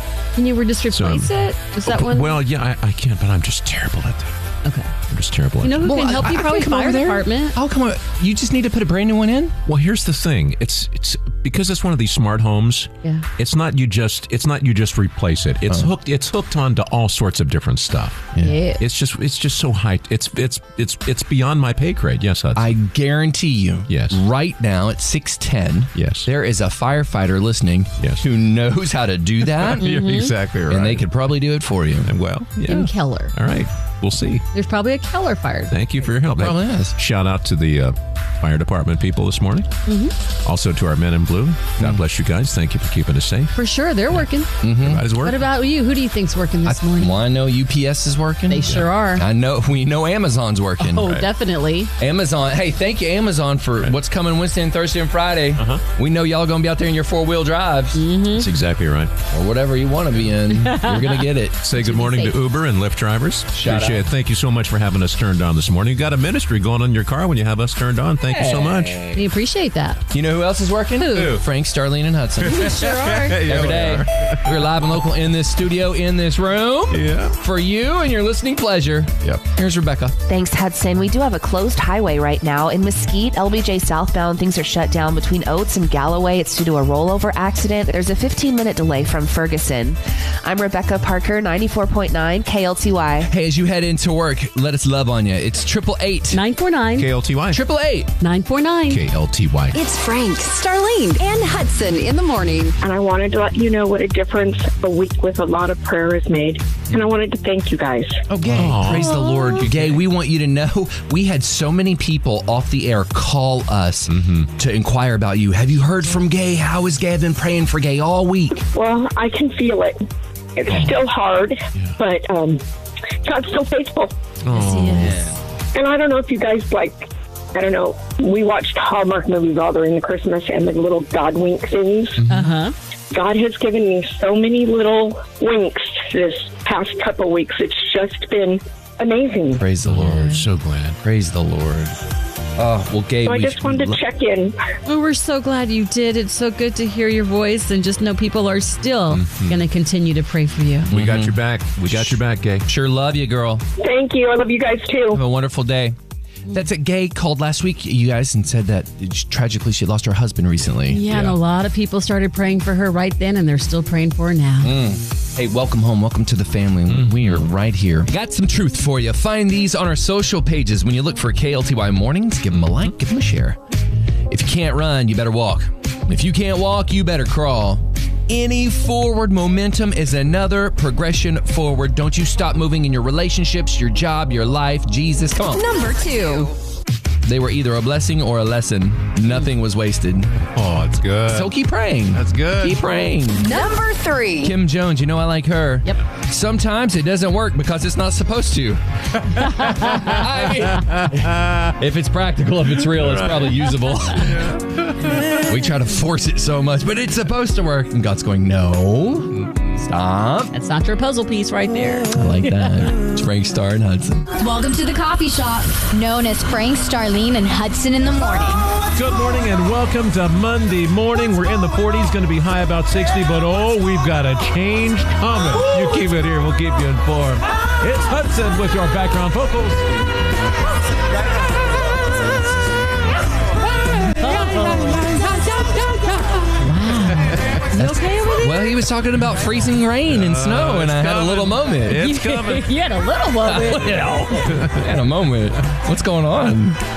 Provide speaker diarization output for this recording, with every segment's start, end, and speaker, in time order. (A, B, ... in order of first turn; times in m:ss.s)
0:00.4-0:02.4 A
0:00.9-0:04.3 B
0:04.6-0:04.9 A
0:05.1-0:06.0 B
0:05.6-0:07.6 A
0:05.8-0:09.5 C
0:09.7-0:22.7 B
0:18.4-0:18.8 A
0:22.5-0:29.8 C
0:23.9-0:24.2 B
0:26.0-0:26.3 B
0:29.5-0:31.1 B
0:29.8-0:30.3 A
0:30.7-0:32.1 C
0:32.0-0:34.4 B
0:32.7-0:33.3 A
0:34.5-0:35.7 A
0:35.7-0:39.7 B
0:36.4-0:36.9 C
0:39.9-0:40.1 A
0:40.4-0:43.5 B
0:41.8-0:42.0 C
0:43.5-0:44.5 A
0:44.6-0:45.0 C
0:44.8-0:45.4 B
0:45.2-0:47.2 A
0:46.6-0:51.1 C
0:48.5-0:49.2 A
0:50.8-0:51.9 A
0:52.0-0:58.0 C
0:55.6-0:55.8 B
0:57.9-0:58.4 A
0:58.3-0:59.1 B
0:59.3-1:01.6 C
1:00.5-1:02.4 A
1:01.6-1:09.2 B
1:03.5-1:04.0 C
1:08.2-1:09.2 C
1:09.1-1:10.0 A
1:10.1-1:12.7 C
1:11.0-1:11.4 A
1:11.1-1:11.4 B
1:12.4-1:14.7 B
1:12.4-1:13.4 A
1:13.4-1:20.2 C
1:16.9-1:17.4 B
1:20.3-1:33.3 D
1:33.3-1:36.4 C
1:36.3-1:37.1 A
1:37.0-1:37.6 B
1:37.5-1:38.1 C
1:38.2-1:39.0 A
1:38.9-1:39.8 B
1:39.7-1:42.8 E
1:42.8-1:48.2 F
1:48.3-1:58.6 C
1:48.5-1:50.0 B
1:48.9-1:49.7 A
1:54.1-1:54.5 B
1:58.7-2:00.0 F
2:00.6-2:02.6 F
2:03.2-2:04.2 F
2:04.4-2:05.2 B
2:04.5-2:05.2 A
2:05.0-2:05.3 C
2:05.7-2:12.2 F
2:12.2-2:12.5 C
2:12.3-2:12.7 A
2:13.1-2:19.6 F
2:19.6-2:20.4 C
2:19.8-2:21.0 B
2:20.0-2:20.3 A
2:21.0-2:21.9 C
2:22.6-2:24.0 C
2:23.2-2:24.6 F
2:24.8-2:30.9 A
2:29.1-2:29.6 B
2:30.9-2:32.7 B
2:30.9-2:33.6 C
2:33.8-2:35.2 F
2:35.1-2:36.0 C
2:36.5-2:41.2 C
2:40.9-2:44.8 A
2:41.1-2:41.3 B
2:44.6-2:53.6 C
2:46.9-2:47.4 B
2:54.3-3:05.7 C
3:05.6-3:06.5 E
3:05.8-3:06.5 G
3:07.2-3:10.3 C
3:10.5-3:11.5 B
3:11.3-3:13.6 C
3:12.1-3:12.8 B
3:13.4-3:14.5 E
3:14.4-3:18.8 C
3:19.4-3:20.2 A
3:19.4-3:24.5 C
3:20.7-3:21.7 B
3:22.9-3:23.6 B
3:24.2-3:25.3 B
3:25.4-3:30.5 C
3:30.5-3:32.8 A
3:32.1-3:34.3 C
3:34.3-3:38.7 G
3:38.9-3:49.8 B
3:54.2-3:56.3 C
3:54.2-3:55.0 A
3:56.6-3:58.8 A
3:57.8-4:02.0 C
4:00.0-4:02.7 B
4:01.9-4:04.2 A
4:03.4-4:06.8 C